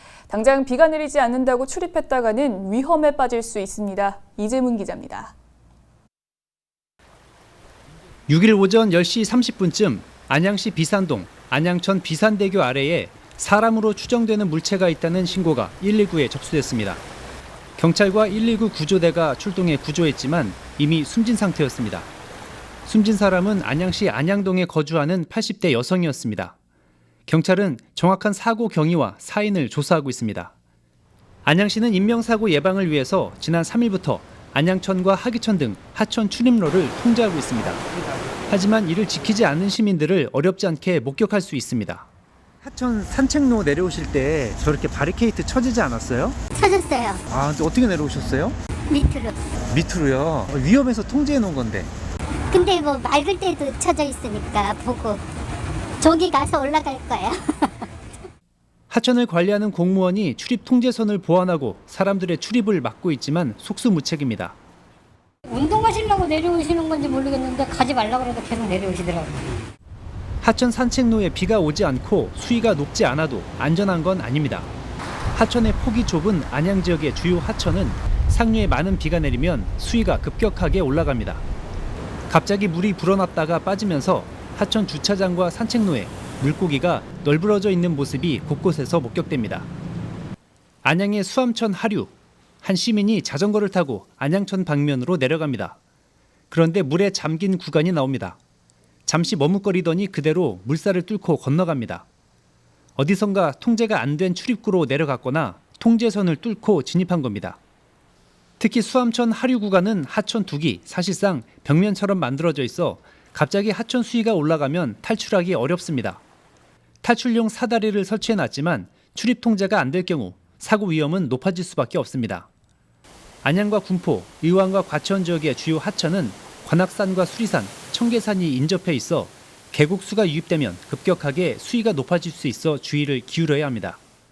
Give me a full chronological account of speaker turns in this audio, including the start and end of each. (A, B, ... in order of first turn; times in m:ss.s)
0:00.3-0:05.3 A
0:08.3-0:17.0 B
0:17.8-0:22.1 B
0:22.8-0:26.5 B
0:27.3-0:30.5 B
0:31.4-0:37.8 B
0:38.5-0:42.1 B
0:42.6-0:46.4 B
0:46.5-0:47.2 C
0:47.3-0:48.6 B
0:48.9-0:49.4 C
0:49.7-0:51.9 B
0:52.5-0:55.2 C
0:56.0-0:57.9 C
0:58.9-1:04.6 B
1:05.5-1:09.5 D
1:10.4-1:14.7 B
1:15.3-1:21.4 B
1:22.3-1:29.7 B
1:30.8-1:35.8 B
1:36.5-1:38.4 B
1:39.0-1:42.0 B
1:43.0-1:47.6 B
1:48.6-1:56.2 B
1:57.0-2:02.5 B
2:03.4-2:14.0 B